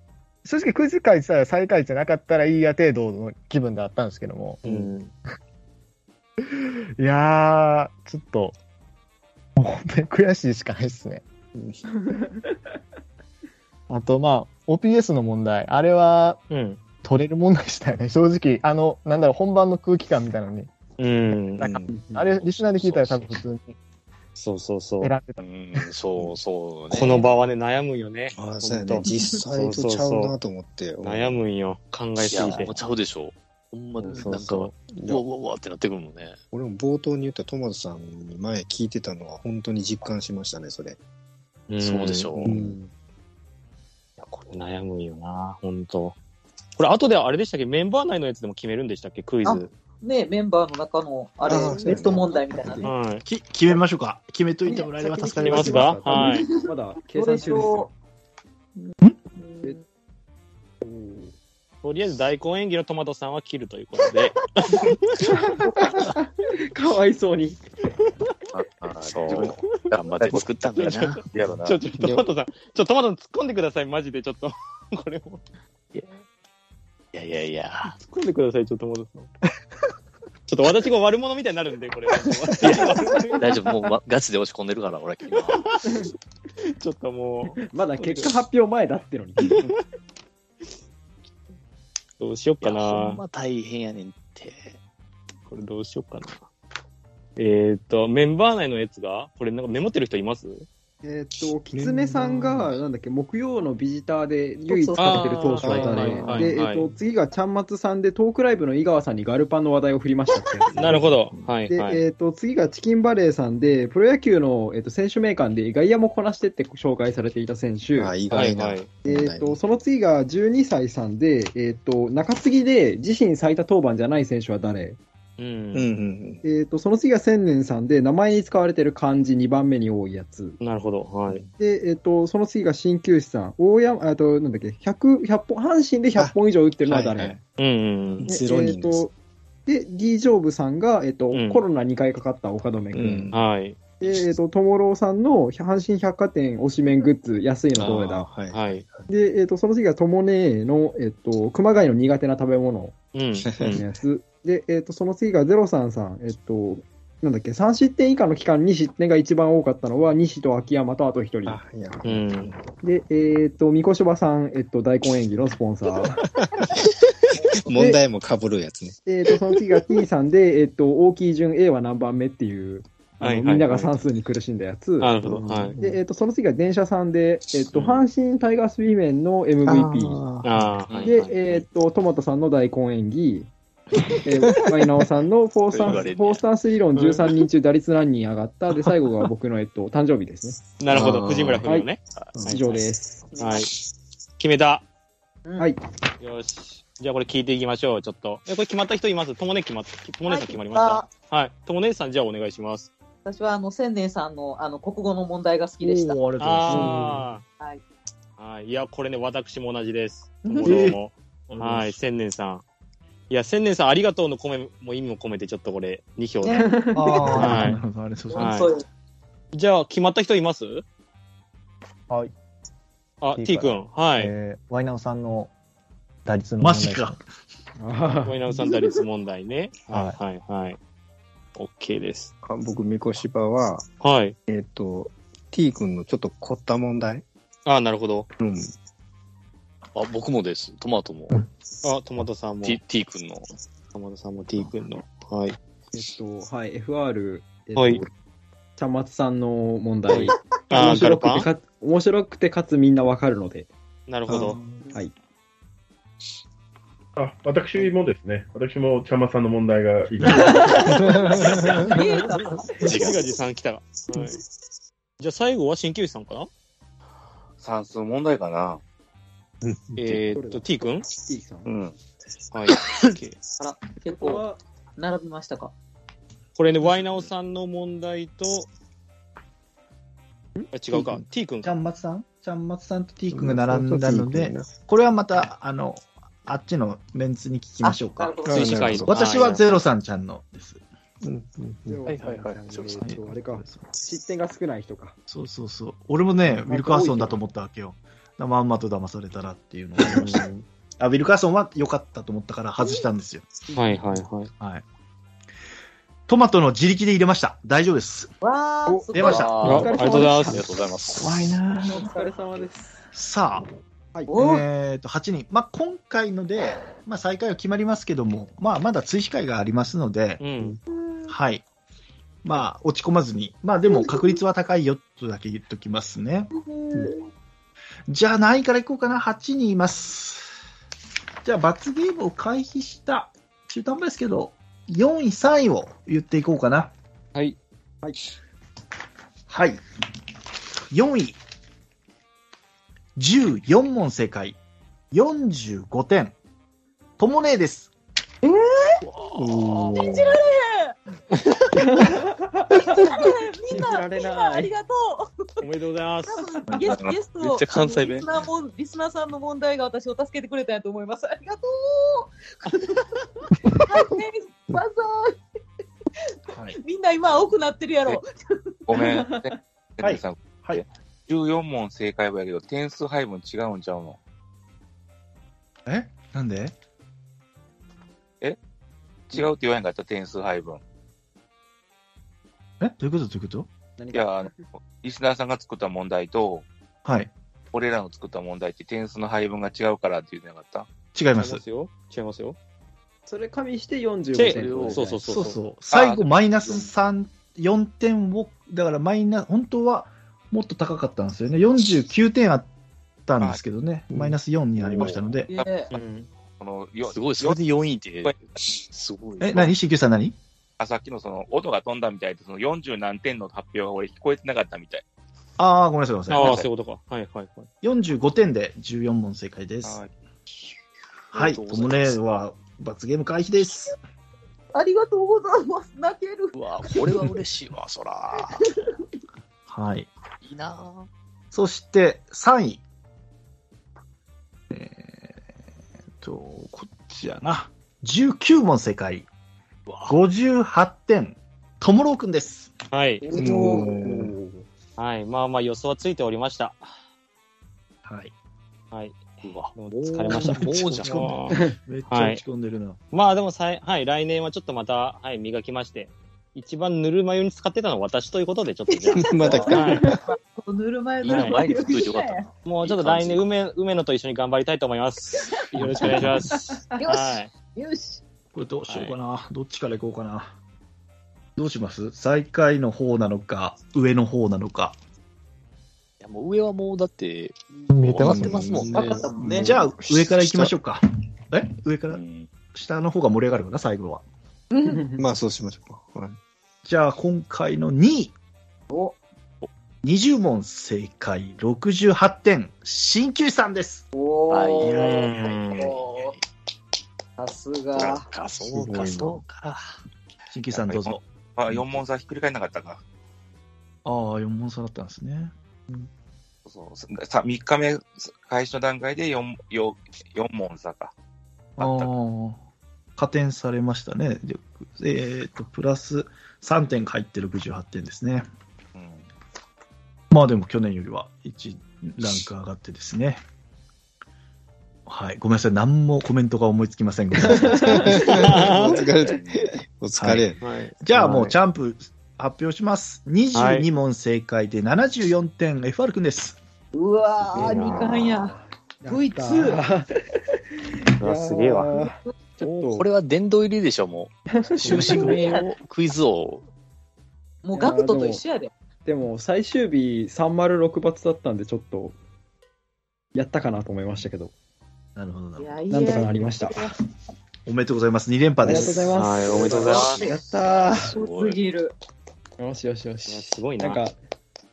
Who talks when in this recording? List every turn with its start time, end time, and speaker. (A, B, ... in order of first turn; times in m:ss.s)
0:00.4-0:04.6 A
0:04.6-0:05.1 B
0:07.0-0:08.6 A
0:09.6-0:11.2 A
0:11.6-0:11.8 C
0:12.0-0:12.5 D
0:13.9-0:16.4 A
0:16.5-0:16.8 B
0:17.0-0:20.7 A
0:21.0-0:21.8 B
0:21.6-0:23.8 A
0:21.6-0:21.9 C
0:21.9-0:22.3 D
0:22.8-0:23.2 E
0:24.4-0:25.1 B
0:25.0-0:25.8 A
0:25.4-0:27.3 E
0:26.9-0:30.3 B
0:28.4-0:31.4 C
0:29.1-0:29.4 F
0:31.0-0:32.7 B
0:32.2-0:36.4 E
0:32.4-0:32.7 C
0:34.2-0:34.7 B
0:36.5-0:41.0 C
0:41.7-0:42.6 B
0:41.8-0:42.6 E
0:42.4-0:42.8 C
0:44.2-0:46.2 B
0:46.8-0:49.7 B
0:49.4-0:52.9 F
0:51.4-0:52.9 C
0:51.7-0:52.2 D
0:52.8-0:53.2 B
0:53.2-0:56.0 G
0:54.7-0:57.9 D
0:55.4-0:56.5 B
0:56.1-0:57.9 F
0:58.8-0:59.8 F
1:00.8-1:01.3 D
1:01.8-1:05.1 B
1:05.4-1:07.6 D
1:08.6-1:09.6 H
1:08.8-1:11.2 E
1:10.8-1:15.4 B
1:10.8-1:11.8 H
1:12.0-1:12.3 C
1:17.1-1:18.0 E
1:17.9-1:19.3 B
1:20.5-1:23.4 B
1:22.6-1:25.7 E
1:26.8-1:28.4 B
1:27.6-1:29.7 D
1:32.2-1:33.2 B
1:32.6-1:34.8 E
1:35.5-1:36.5 B
1:37.4-1:40.7 B
1:41.0-1:51.1 D
1:41.7-1:42.8 C
1:44.7-1:46.4 F
1:45.0-1:46.9 B
1:45.4-1:46.5 C
1:50.8-1:52.0 B
1:50.8-1:51.5 C
1:51.7-1:58.1 D
1:58.0-1:59.6 C
1:58.3-1:58.9 B
1:59.0-2:05.0 D
2:05.4-2:05.9 B
2:05.7-2:06.4 C
2:06.4-2:10.6 D
2:10.6-2:11.4 B
2:11.6-2:17.4 D
2:16.2-2:17.4 C
2:17.6-2:18.3 B
2:18.1-2:19.1 C
2:18.3-2:19.1 D
2:19.7-2:23.3 D
2:21.3-2:21.6 B
2:22.9-2:23.5 C
2:23.3-2:23.8 B
2:24.0-2:28.3 D
2:27.7-2:29.1 C
2:27.8-2:28.9 B
2:29.1-2:33.0 D
2:33.1-2:33.8 B
2:33.4-2:33.9 C
2:33.7-2:41.6 D
2:41.5-2:42.7 C
2:42.0-2:42.5 B
2:42.8-2:46.2 D
2:46.1-2:47.0 C
2:47.5-2:49.9 C
2:47.7-2:48.0 D
2:49.0-2:55.3 D
2:53.2-2:54.0 B
2:55.0-2:55.8 B
2:55.2-2:56.0 C
2:55.8-3:00.2 D
2:57.7-2:58.0 B
2:59.6-3:00.8 C
3:00.4-3:01.4 B
3:01.0-3:03.5 D
3:04.2-3:10.6 D
3:04.3-3:05.1 C
3:05.8-3:06.4 E
3:07.0-3:07.2 B
3:10.8-3:12.8 B
3:10.9-3:11.7 C
3:11.6-3:11.9 D
3:12.4-3:12.6 C
3:12.5-3:13.3 D
3:13.3-3:13.7 F
3:13.4-3:13.7 B
3:14.4-3:14.8 B
3:16.2-3:22.9 B
3:20.3-3:21.1 F
3:23.2-3:27.1 F
3:25.8-3:27.3 G
3:26.4-3:27.4 B
3:28.4-3:32.6 B
3:30.4-3:31.0 F
3:30.6-3:31.0 G
3:31.5-3:31.8 G
3:33.3-3:36.7 B
3:36.4-3:37.8 F
3:36.5-3:37.3 D
3:37.0-3:38.7 G
3:37.4-3:37.8 B
3:38.3-3:38.8 F
3:38.4-3:38.7 B
3:39.5-3:40.8 B
3:43.2-3:44.3 B
3:43.4-3:45.5 A
3:46.2-3:47.1 A
3:46.6-3:47.2 G
3:47.8-3:48.6 D
3:48.2-3:50.8 B
3:49.9-3:50.2 A
3:51.6-3:52.3 B
3:52.4-3:53.8 C
3:54.0-3:54.4 B
3:54.5-3:57.2 C
3:57.7-3:58.3 B
3:58.4-3:58.7 C
4:00.0-4:01.4 E
4:01.8-4:02.8 B
4:02.6-4:03.5 E
4:04.0-4:05.6 B
4:05.9-4:08.1 D
4:07.8-4:08.0 B
4:08.8-4:13.7 D
4:10.2-4:11.5 B
4:14.1-4:14.6 B
4:14.3-4:14.9 C
4:17.2-4:20.9 I
4:20.3-4:20.8 D
4:20.9-4:21.6 C
4:21.5-4:23.1 F
4:22.8-4:23.2 E
4:22.8-4:24.4 B
4:25.2-4:26.5 B
4:27.6-4:28.8 H
4:30.0-4:31.0 B
4:30.3-4:30.7 D
4:31.3-4:31.7 D
4:31.7-4:31.9 H
4:32.5-4:33.4 B
4:32.7-4:33.1 E
4:33.6-4:34.5 F
4:34.2-4:34.6 D
4:35.0-4:35.7 F
4:36.6-4:38.7 B
4:40.7-4:41.7 B
4:40.9-4:41.2 C
4:41.6-4:48.4 G
4:43.3-4:44.8 C
4:47.8-4:48.9 F
4:48.4-4:49.2 C
4:48.5-4:49.6 B
4:49.1-4:50.8 G
4:51.2-4:52.6 C
4:51.9-4:55.2 D
4:52.2-4:52.9 E
4:53.0-4:53.8 G
4:55.3-5:00.4 G
4:56.5-4:57.4 D
5:00.1-5:00.6 B
5:01.0-5:03.5 G
5:03.7-5:04.5 B
5:06.3-5:08.3 G
5:08.4-5:10.3 F
5:08.9-5:10.7 D
5:09.1-5:09.5 G
5:09.2-5:11.4 E
5:09.6-5:10.6 B
5:11.2-5:11.7 A
5:11.8-5:13.0 D
5:12.0-5:12.3 F
5:13.1-5:13.7 G
5:14.3-5:14.6 F
5:14.4-5:20.5 G
5:20.4-5:20.8 B
5:21.0-5:21.3 F
5:21.3-5:21.6 G
5:22.4-5:26.5 G
5:23.8-5:24.4 F
5:26.6-5:27.2 F
5:28.1-5:30.5 G
5:31.4-5:36.9 G
5:39.5-5:39.8 G
5:40.9-5:41.4 G
5:43.2-5:44.6 G
5:45.1-5:46.3 G
5:47.2-5:47.9 G
5:48.4-5:49.0 F
5:49.4-5:50.3 C
5:49.7-5:51.0 F
5:51.7-5:53.2 D
5:52.8-5:55.3 F
5:53.7-5:54.7 D
5:55.6-5:56.7 B
5:56.3-6:03.1 F
5:57.3-5:58.3 E
6:03.7-6:05.4 F
6:06.5-6:06.8 G
6:06.7-6:08.7 F
6:08.9-6:14.2 H
6:09.1-6:09.6 D
6:10.0-6:10.8 G
6:15.9-6:16.7 G
6:19.3-6:20.8 H
6:22.8-6:23.7 G
6:24.0-6:24.6 D
6:24.1-6:26.7 H
6:27.0-6:27.3 G
6:27.7-6:30.9 H
6:31.1-6:31.6 G
6:31.4-6:32.6 B
6:33.3-6:35.3 D
6:34.3-6:35.6 B
6:34.4-6:35.0 E
6:35.3-6:42.7 G
6:35.9-6:36.9 H
6:43.3-6:45.5 G
6:44.1-6:44.4 C
6:44.8-6:45.1 E
6:44.9-6:45.7 H
6:45.5-6:45.9 F
6:45.9-6:46.3 B
6:46.6-6:47.6 H
6:47.1-6:49.7 E
6:49.4-6:50.4 G
6:50.8-6:55.0 H
6:55.6-6:56.7 G
6:56.3-6:56.7 H
6:56.3-6:57.7 B
6:57.8-7:00.0 G
6:59.8-7:00.1 H
7:01.3-7:04.0 G
7:01.3-7:02.2 E
7:04.7-7:07.3 F
7:06.6-7:08.7 E
7:08.6-7:08.9 F
7:09.7-7:10.1 G
7:10.4-7:11.1 E
7:11.5-7:12.8 G
7:14.7-7:15.3 G
7:16.2-7:19.3 G
7:19.9-7:20.2 E
7:20.1-7:22.7 G
7:22.9-7:23.2 B
7:23.3-7:23.9 F
7:23.3-7:24.4 C
7:25.0-7:26.8 B
7:28.0-7:28.3 G
7:28.9-7:32.4 B
7:29.4-7:31.4 E
7:30.6-7:33.0 G
7:33.1-7:40.1 B
7:38.9-7:42.4 F
7:39.1-7:40.2 C
7:41.2-7:43.4 E
7:41.3-7:41.6 B
7:42.6-7:47.5 B
7:45.4-7:45.8 F
7:46.0-7:46.4 C
7:47.0-7:48.2 F
7:48.5-7:50.6 G
7:48.9-7:49.2 B
7:51.6-7:55.0 G
7:56.2-7:59.3 E
7:57.9-7:58.6 A
7:58.2-8:00.7 C
7:58.9-7:59.7 F
7:59.5-8:02.2 G
8:02.1-8:02.5 E
8:02.7-8:04.2 G
8:04.7-8:05.1 F
8:05.2-8:06.4 C
8:06.8-8:08.3 G
8:08.9-8:09.2 F
8:10.0-8:14.1 G
8:14.1-8:16.4 F
8:14.5-8:16.4 E
8:14.9-8:15.9 B
8:17.4-8:18.3 F
8:18.0-8:19.8 E
8:18.7-8:19.4 C
8:20.5-8:21.8 G
8:20.9-8:23.0 H
8:24.0-8:25.5 G
8:26.7-8:31.1 H
8:31.8-8:32.1 H
8:31.8-8:32.6 G
8:33.2-8:38.4 G
8:39.0-8:39.3 H
8:40.3-8:43.4 G
8:45.1-8:48.2 G
8:47.5-8:50.6 C
8:48.2-8:49.0 B
8:49.1-8:49.6 E
8:50.2-8:50.5 G
8:50.6-8:51.0 B
8:51.0-8:56.6 G
8:51.2-8:51.5 C
8:53.5-8:53.9 B
8:56.9-8:59.8 F
8:57.6-8:58.3 B
8:57.6-8:58.2 D
8:59.0-9:00.2 D
9:01.2-9:02.0 B
9:01.2-9:03.1 D
9:02.6-9:06.7 E
9:04.5-9:05.1 D
9:04.8-9:05.7 F
9:04.9-9:05.5 G
9:07.6-9:08.7 F
9:07.8-9:08.4 D
9:09.0-9:12.2 D
9:13.4-9:14.5 D
9:15.2-9:15.8 G
9:15.6-9:17.0 F
9:15.9-9:16.8 D
9:17.7-9:19.3 G
9:18.6-9:21.1 D
9:19.2-9:20.2 B
9:19.5-9:20.4 F
9:19.9-9:20.2 E
9:20.9-9:21.6 E
9:21.1-9:21.9 F
9:22.6-9:24.2 D
9:23.3-9:24.0 B